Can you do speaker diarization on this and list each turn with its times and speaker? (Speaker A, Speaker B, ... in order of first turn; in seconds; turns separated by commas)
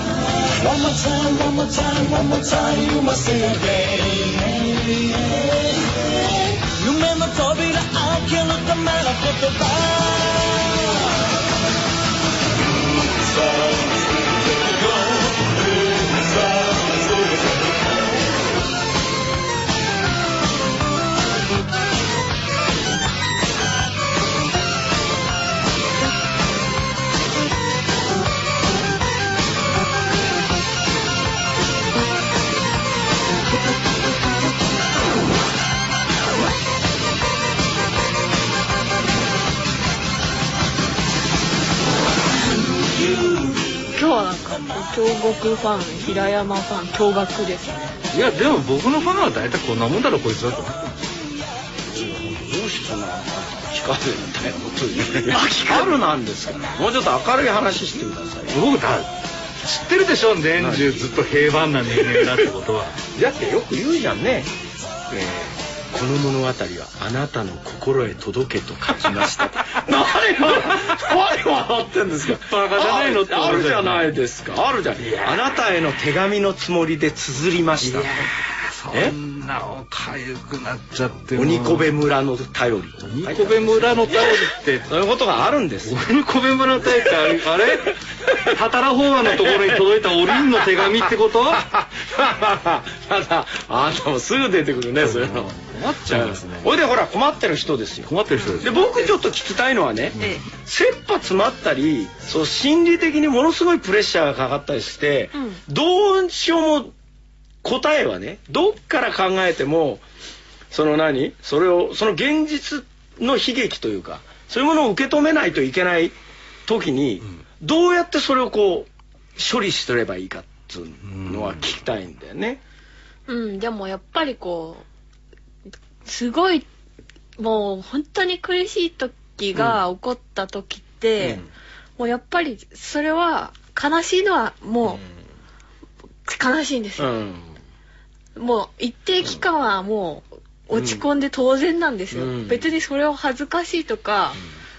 Speaker A: 0.4-11.3, Speaker A: 43.0-43.8, Speaker B: 43.9-47.9, Speaker C: 48.1-51.1, Speaker D: 51.8-58.6, Speaker C: 58.5-63.0, Speaker D: 60.6-61.1, Speaker D: 61.9-62.5, Speaker D: 63.1-64.5, Speaker D: 65.1-78.1, Speaker C: 72.3-74.1, Speaker C: 75.0-75.6, Speaker C: 77.8-81.9, Speaker D: 81.3-85.9, Speaker C: 83.0-84.9, Speaker C: 85.8-91.6, Speaker D: 87.2-87.5, Speaker D: 89.2-95.5, Speaker C: 95.0-96.7, Speaker D: 96.1-98.1, Speaker C: 98.0-98.8, Speaker B: 98.4-99.2, Speaker D: 98.6-106.9, Speaker C: 100.1-100.4, Speaker B: 100.2-100.5, Speaker B: 105.3-105.6, Speaker D: 107.6-110.0, Speaker D: 110.7-122.6, Speaker C: 121.0-121.7, Speaker B: 123.3-124.8, Speaker B: 126.0-126.7, Speaker B: 127.4-131.4, Speaker D: 129.5-129.8, Speaker D: 131.2-131.5, Speaker B: 132.0-135.0, Speaker B: 136.2-137.1, Speaker D: 137.0-137.5, Speaker B: 138.3-144.4, Speaker D: 140.7-141.0, Speaker D: 142.1-142.7